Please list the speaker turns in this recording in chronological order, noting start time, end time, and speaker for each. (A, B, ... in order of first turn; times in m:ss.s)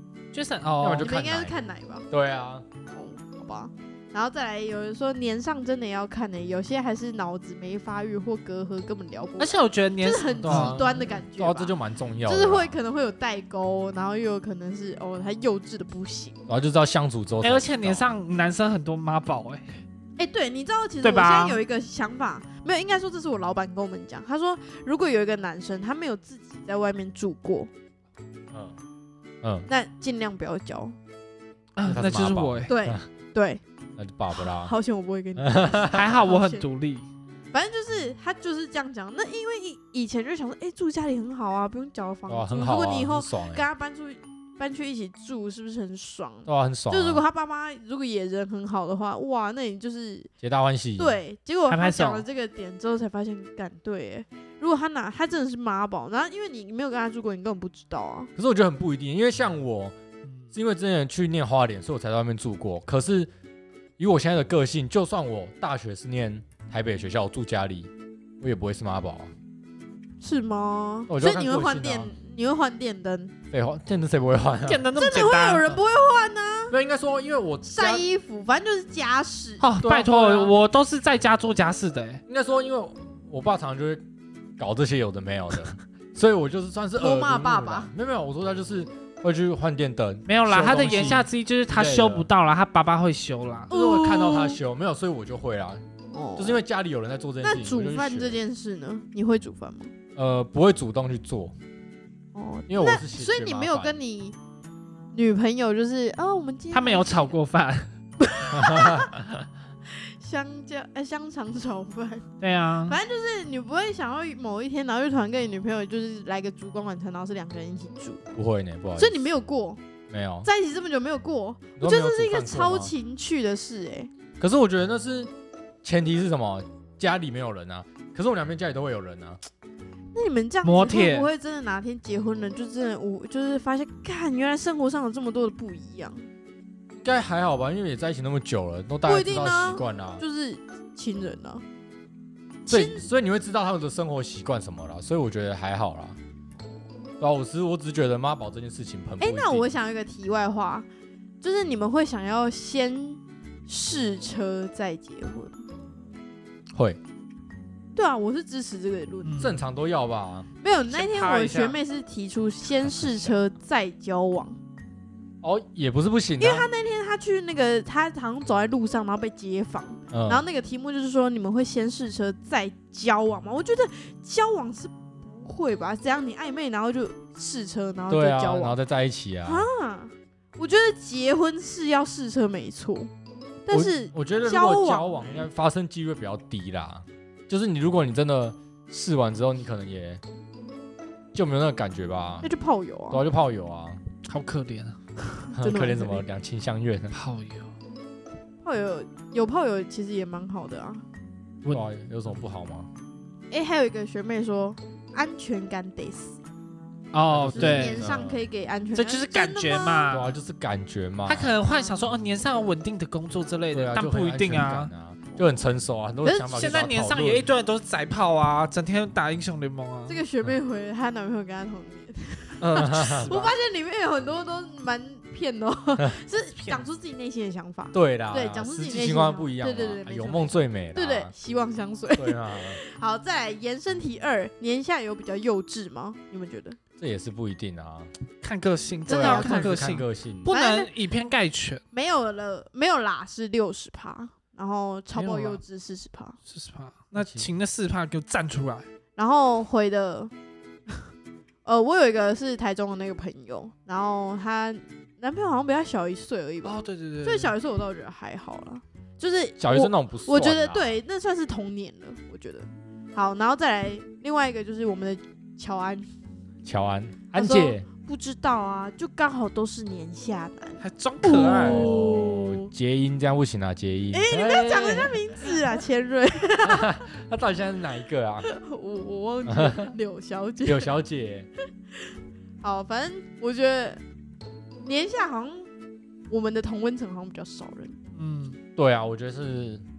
0:00.3-0:01.1 A
0:00.7-0:01.6 B
0:01.0-0:02.1 C
0:02.1-0:02.6 B
0:02.9-0:11.7 C
0:09.4-0:10.9 A
0:10.4-0:12.7 B
0:12.3-0:16.4 C
0:16.5-0:18.2 B
0:17.4-0:19.8 A
0:20.2-0:27.7 C
0:21.0-0:21.6 A
0:29.4-0:29.7 B
0:29.7-0:31.0 C
0:31.8-0:32.7 A
0:31.8-0:33.0 B
0:32.7-0:33.6 C
0:34.0-0:34.7 B
0:34.4-0:36.6 C
0:35.4-0:36.2 B
0:35.9-0:37.1 A
0:37.5-0:50.3 C
0:42.3-0:43.7 B
0:46.5-0:47.2 B
0:50.4-0:51.2 B
0:51.0-0:58.3 C
0:51.7-0:52.3 A
0:58.4-1:00.0 B
1:00.5-1:03.3 B
1:04.0-1:07.9 B
1:08.4-1:09.3 B
1:10.2-1:13.3 C
1:11.1-1:12.1 B
1:13.5-1:14.9 B
1:14.7-1:15.7 A
1:15.0-1:16.8 C
1:16.7-1:18.0 B
1:17.6-1:19.7 C
1:19.6-1:22.2 A
1:19.8-1:20.6 B
1:22.3-1:24.0 B
1:24.6-1:32.3 B
1:27.0-1:27.9 C
1:30.3-1:33.7 A
1:33.7-1:34.6 C
1:33.7-1:35.8 B
1:36.1-1:36.6 C
1:36.4-1:38.4 B
1:37.4-1:39.9 C
1:40.2-1:41.6 B
1:42.4-1:44.4 C
1:42.7-1:44.0 B
1:45.1-1:47.4 C
1:46.7-1:47.9 A
1:48.2-1:49.1 C
1:48.5-1:49.1 B
1:49.9-1:52.3 C
1:52.4-1:53.0 A
1:52.9-1:58.3 C
1:58.4-1:59.3 B
1:59.0-1:59.8 C
2:00.1-2:00.5 B
2:00.4-2:04.1 C
2:01.8-2:02.9 B
2:04.4-2:05.3 B
2:05.8-2:09.4 B
2:10.1-2:16.3 C
2:10.6-2:11.3 A
2:17.0-2:20.2 B
2:19.1-2:21.6 C
2:22.7-2:23.1 C
2:22.7-2:26.2 B
2:27.2-2:29.6 B
2:29.2-2:30.9 C
2:31.4-2:35.7 C
2:36.7-2:37.0 B
2:38.0-2:39.6 C
2:39.2-2:39.6 A
2:39.4-2:40.5 B
2:40.6-2:44.6 C
2:40.9-2:41.8 A
2:42.8-2:43.4 B
2:45.4-2:46.7 B
2:46.4-2:58.8 C
2:50.1-2:50.4 B
2:58.1-2:59.7 B
2:59.5-3:03.1 C
3:03.6-3:05.5 C
3:03.7-3:10.2 B
3:11.3-3:12.5 B
3:12.4-3:13.2 C
3:13.1-3:14.0 B
3:14.3-3:15.0 A
3:15.3-3:16.2 C
3:15.6-3:17.2 B
3:17.1-3:17.7 A
3:18.6-3:21.0 C
3:21.6-3:21.9 A
3:21.7-3:22.9 B
3:23.5-3:26.4 C
3:27.1-3:28.0 A
3:27.3-3:28.4 B
3:27.5-3:30.2 C
3:29.0-3:30.3 A
3:30.1-3:31.6 B
3:31.3-3:34.9 A
3:31.7-3:32.7 C
3:33.7-3:37.5 B
3:35.3-3:35.6 C
3:36.2-3:36.8 C
3:36.5-3:40.2 A
3:40.1-3:56.8 C
3:42.6-3:43.3 B
3:42.7-3:43.6 A
3:47.9-3:51.3 B
3:52.2-3:52.8 B
3:57.0-3:58.1 B
3:58.4-4:01.8 A
3:59.1-4:00.5 B
3:59.1-4:00.9 C
4:01.9-4:06.4 C
4:05.1-4:05.6 A
4:06.5-4:08.9 A
4:07.2-4:07.5 B
4:09.2-4:10.3 C
4:11.6-4:26.1 C
4:16.6-4:17.6 A
4:19.6-4:20.9 B
4:26.6-4:27.9 B
4:27.4-4:32.7 C
4:30.8-4:31.9 A
4:31.2-4:35.2 B
4:34.1-4:37.0 C
4:36.6-4:38.5 B
4:38.4-4:40.9 C
4:39.5-4:39.9 B
4:40.6-4:41.5 B
4:42.6-4:44.0 C
4:44.8-4:45.7 C
4:46.3-4:48.0 C
4:48.2-4:48.6 A
4:48.8-4:49.8 B